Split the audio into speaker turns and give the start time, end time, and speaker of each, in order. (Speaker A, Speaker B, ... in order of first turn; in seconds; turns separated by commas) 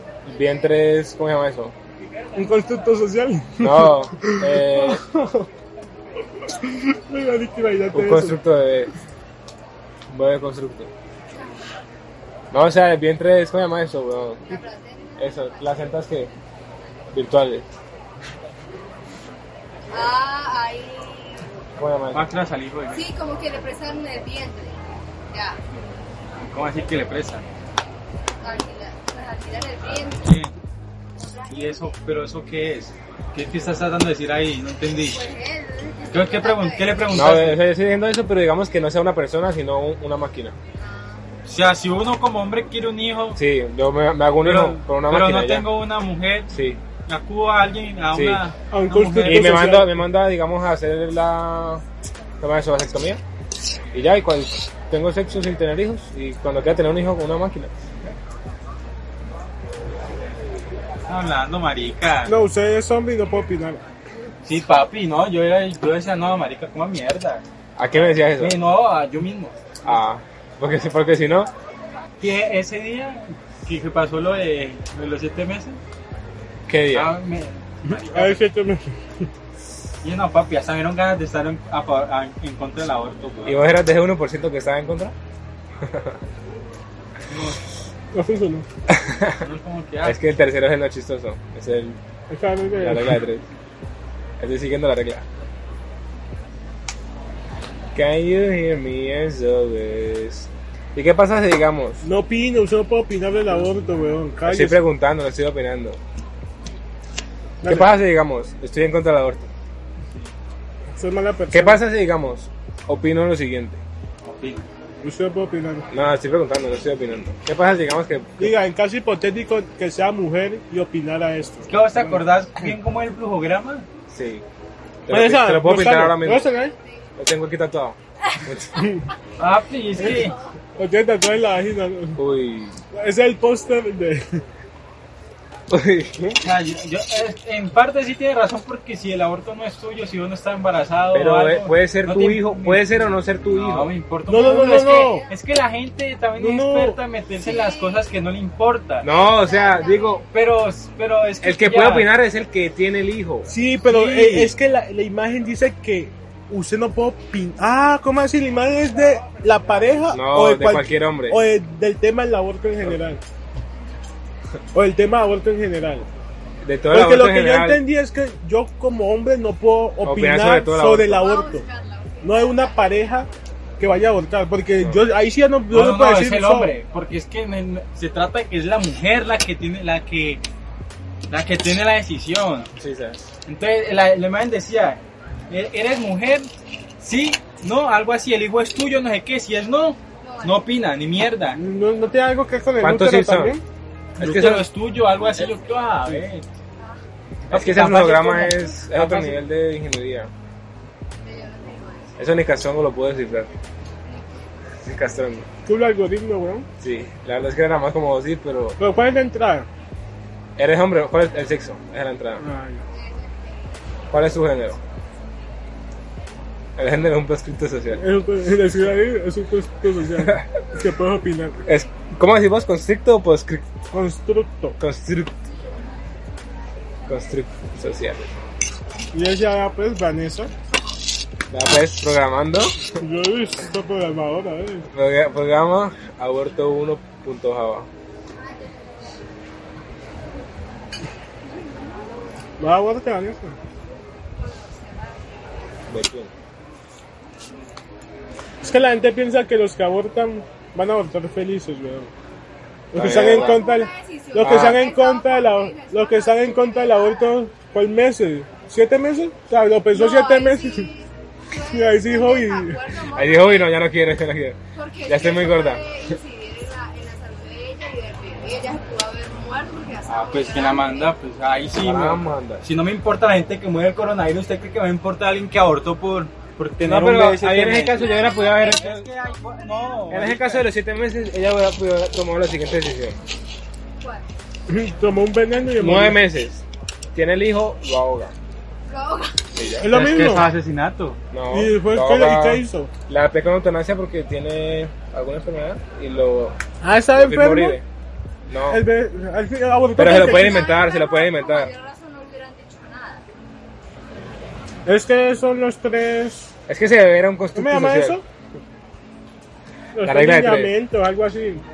Speaker A: 0.3-1.7, Speaker B: 2.4-5.5, Speaker A: 3.6-5.0, Speaker B: 6.5-8.4, Speaker A: 7.9-8.9, Speaker A: 10.1-10.9, Speaker A: 12.5-14.5, Speaker C: 14.5-16.3, Speaker A: 15.2-16.3, Speaker A: 17.1-17.7, Speaker C: 19.9-21.4, Speaker A: 21.8-22.3, Speaker D: 22.1-23.1, Speaker C: 22.9-24.8, Speaker C: 25.3-25.6, Speaker D: 26.4-27.4, Speaker C: 28.4-30.4, Speaker D: 29.8-30.6, Speaker D: 31.5-35.2, Speaker C: 31.5-31.9, Speaker C: 35.1-37.2, Speaker D: 36.1-37.6, Speaker A: 37.1-40.6, Speaker C: 40.8-41.3, Speaker D: 41.5-43.4, Speaker A: 43.4-45.7, Speaker D: 44.4-49.6, Speaker A: 46.5-46.8, Speaker A: 48.1-48.5, Speaker B: 48.7-50.0, Speaker A: 49.2-51.8, Speaker A: 52.4-53.2, Speaker A: 53.9-57.7, Speaker D: 61.1-62.3, Speaker B: 62.3-63.8, Speaker D: 64.4-67.4, Speaker A: 67.8-68.6, Speaker D: 68.4-69.7, Speaker A: 69.8-71.5, Speaker D: 72.2-75.8, Speaker A: 76.7-77.1, Speaker D: 76.9-78.4, Speaker B: 78.1-78.9, Speaker D: 80.0-83.6, Speaker A: 83.5-85.2, Speaker A: 85.8-86.2, Speaker D: 87.3-87.6, Speaker B: 88.1-88.7, Speaker A: 88.9-89.4, Speaker D: 89.4-90.2, Speaker A: 90.0-92.0, Speaker B: 92.3-93.2, Speaker A: 92.8-93.4, Speaker A: 94.4-95.2, Speaker A: 97.9-102.0, Speaker B: 102.0-104.8, Speaker A: 104.5-106.0, Speaker B: 107.6-107.9, Speaker A: 107.6-109.5, Speaker B: 111.0-111.8, Speaker A: 111.5-113.8, Speaker D: 114.2-114.6, Speaker B: 115.0-115.9, Speaker A: 115.9-118.5, Speaker B: 118.4-122.2, Speaker D: 121.7-123.9, Speaker A: 124.1-124.4, Speaker A: 125.1-126.5, Speaker B: 125.1-126.7, Speaker C: 126.4-126.7, Speaker A: 127.2-128.8, Speaker B: 128.8-129.0, Speaker D: 129.4-130.3, Speaker B: 130.8-132.2, Speaker A: 132.2-132.8, Speaker B: 132.9-134.4, Speaker A: 135.7-136.4, Speaker D: 136.4-149.1, Speaker A: 141.1-143.9, Speaker B: 144.3-145.3, Speaker C: 145.0-145.4, Speaker B: 146.4-147.0, Speaker C: 147.4-148.1, Speaker A: 149.0-150.2, Speaker C: 149.1-150.2, Speaker D: 150.3-152.1, Speaker A: 151.4-153.5, Speaker B: 153.5-163.2, Speaker D: 153.9-154.5, Speaker A: 160.1-161.4, Speaker B: 164.7-166.1, Speaker A: 166.6-167.8, Speaker B: 166.9-171.7, Speaker A: 170.0-171.3, Speaker C: 171.0-173.3, Speaker B: 172.2-173.3, Speaker B: 173.8-176.7, Speaker D: 175.7-180.4, Speaker D: 181.3-182.7, Speaker A: 182.8-183.2, Speaker D: 183.5-191.6, Speaker C: 190.2-190.8, Speaker B: 191.6-193.6, Speaker A: 192.8-193.6, Speaker A: 194.2-194.7, Speaker D: 194.2-196.5, Speaker D: 197.5-199.4, Speaker A: 197.5-200.3, Speaker C: 201.2-202.2, Speaker A: 202.2-203.5, Speaker C: 204.0-204.5, Speaker A: 204.8-205.5, Speaker B: 205.7-206.7, Speaker A: 206.8-208.8, Speaker B: 208.8-209.7, Speaker A: 210.6-212.4, Speaker B: 212.4-212.8, Speaker C: 212.9-213.7, Speaker A: 214.1-214.8, Speaker A: 216.8-218.0, Speaker B: 218.0-221.6, Speaker A: 221.7-223.7, Speaker B: 223.9-224.8, Speaker A: 224.8-225.3, Speaker A: 227.1-228.2, Speaker B: 229.1-230.5, Speaker A: 231.5-232.9, Speaker B: 233.0-234.9, Speaker A: 234.9-237.9, Speaker B: 242.6-243.6, Speaker C: 244.4-245.4, Speaker A: 245.9-246.3, Speaker B: 248.6-252.1, Speaker B: 252.9-260.9, Speaker A: 252.9-253.6, Speaker C: 253.1-257.5, Speaker A: 254.4-254.8, Speaker C: 259.9-263.9, Speaker B: 261.7-262.8, Speaker A: 263.1-265.8, Speaker C: 264.8-271.2, Speaker D: 270.1-280.7, Speaker A: 271.8-272.6, Speaker A: 276.8-279.0, Speaker C: 277.9-280.3, Speaker A: 280.1-283.2, Speaker C: 284.0-284.3, Speaker B: 284.7-286.2, Speaker A: 285.8-286.6, Speaker A: 287.1-288.3, Speaker C: 288.9-289.4, Speaker A: 289.6-289.9, Speaker B: 289.8-290.5, Speaker D: 289.9-291.2, Speaker A: 291.3-296.6, Speaker B: 291.5-292.9, Speaker B: 296.8-297.8, Speaker A: 297.1-297.8, Speaker A: 298.5-298.8, Speaker B: 298.7-300.7, Speaker A: 300.0-301.7, Speaker C: 300.2-303.2, Speaker B: 304.9-306.5, Speaker A: 306.7-308.2, Speaker B: 307.6-308.2, Speaker B: 309.9-311.6, Speaker A: 310.0-310.7